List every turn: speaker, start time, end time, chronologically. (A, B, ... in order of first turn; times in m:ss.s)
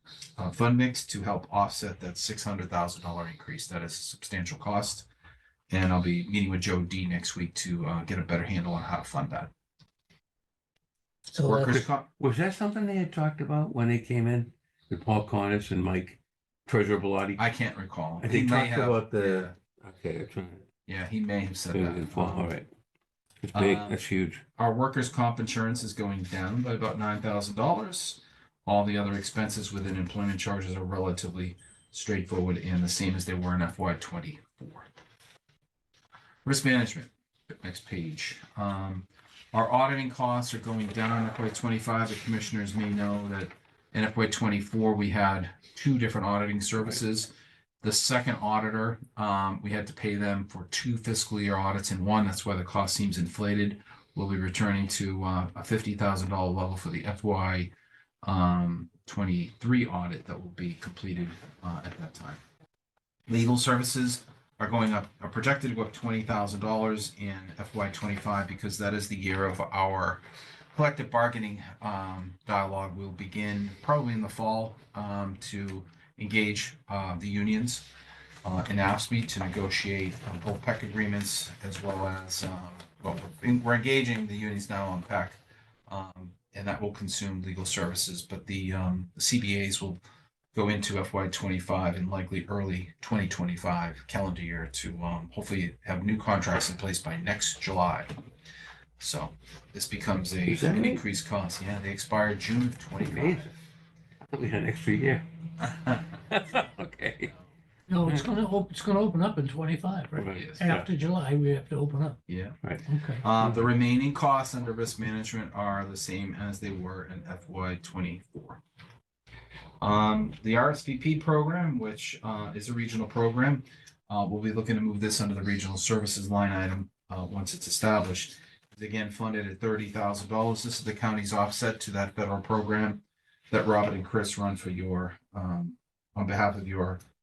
0:00.4-0:05.1 A
0:05.7-0:09.5 A
0:11.3-0:11.8 B
0:11.4-0:12.1 A
0:11.7-0:17.4 C
0:17.4-0:19.6 A
0:18.2-0:20.6 C
0:20.8-0:22.5 A
0:21.7-0:22.7 C
0:23.4-0:24.4 C
0:23.5-0:24.0 A
0:24.6-0:34.9 A
0:36.4-0:57.7 A
0:58.2-1:02.4 A
1:03.3-1:10.2 A
1:10.7-1:17.9 A
1:18.4-1:30.0 A
1:30.5-1:38.1 A
1:39.0-1:43.5 A
1:40.4-1:41.0 C
1:43.0-1:43.5 C
1:44.3-1:45.2 C
1:45.6-1:46.0 A
1:46.3-1:47.3 C
1:47.9-1:52.2 B
1:50.1-1:50.9 C
1:50.3-1:50.6 A
1:52.3-1:52.6 A
1:52.8-1:53.2 B
1:53.2-1:58.6 A
1:53.4-1:53.7 C
1:59.8-2:17.0 A